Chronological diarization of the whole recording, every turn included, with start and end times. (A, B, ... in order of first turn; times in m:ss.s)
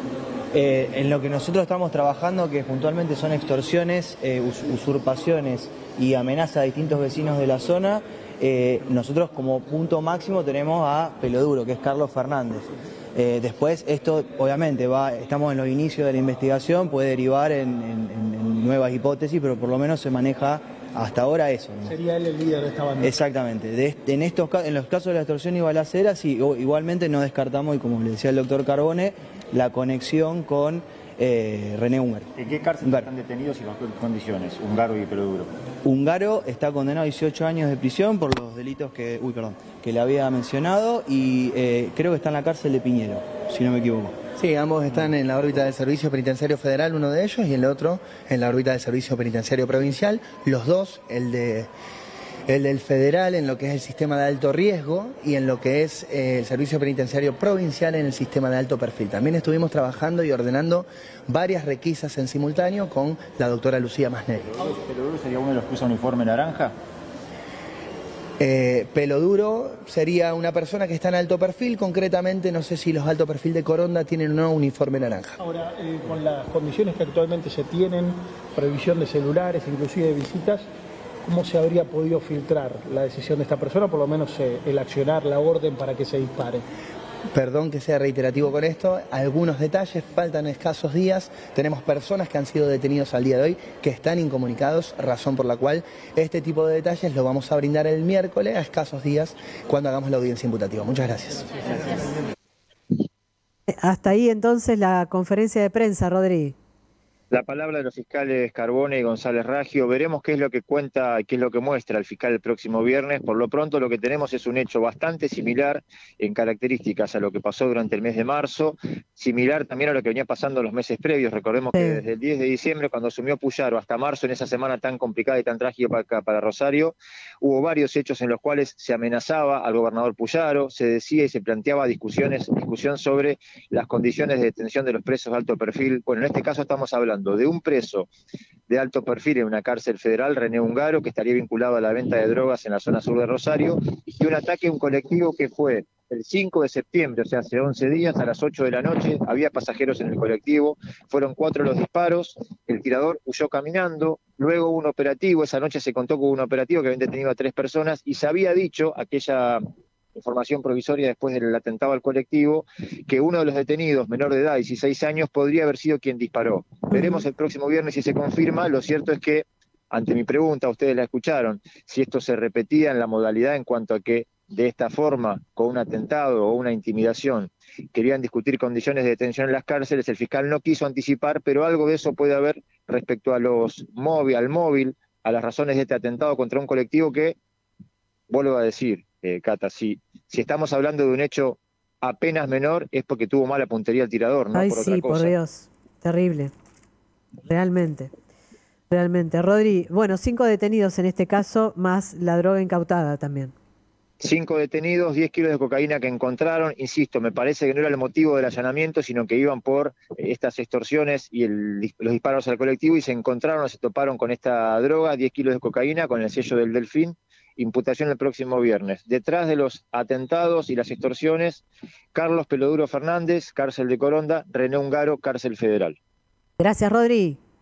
0:00.5-0:22.0 A
0:21.9-0:23.1 B
0:23.0-0:32.3 A
0:32.4-0:35.5 C
0:32.8-0:33.1 A
0:35.8-0:44.2 A
0:44.4-0:51.7 D
0:52.5-1:04.6 D
1:04.6-1:06.8 C
1:08.4-1:15.4 D
1:15.4-1:20.6 B
1:21.3-1:26.6 B
1:27.3-1:41.6 D
1:43.7-1:46.6 E
1:47.3-2:18.1 C
2:01.7-2:02.0 E
2:18.7-2:39.6 C
2:40.2-3:07.4 C
3:08.3-3:15.4 C
3:14.5-3:16.5 E
3:17.4-3:18.1 E
3:18.9-3:23.5 E
3:24.2-3:46.0 C
3:46.6-3:47.4 E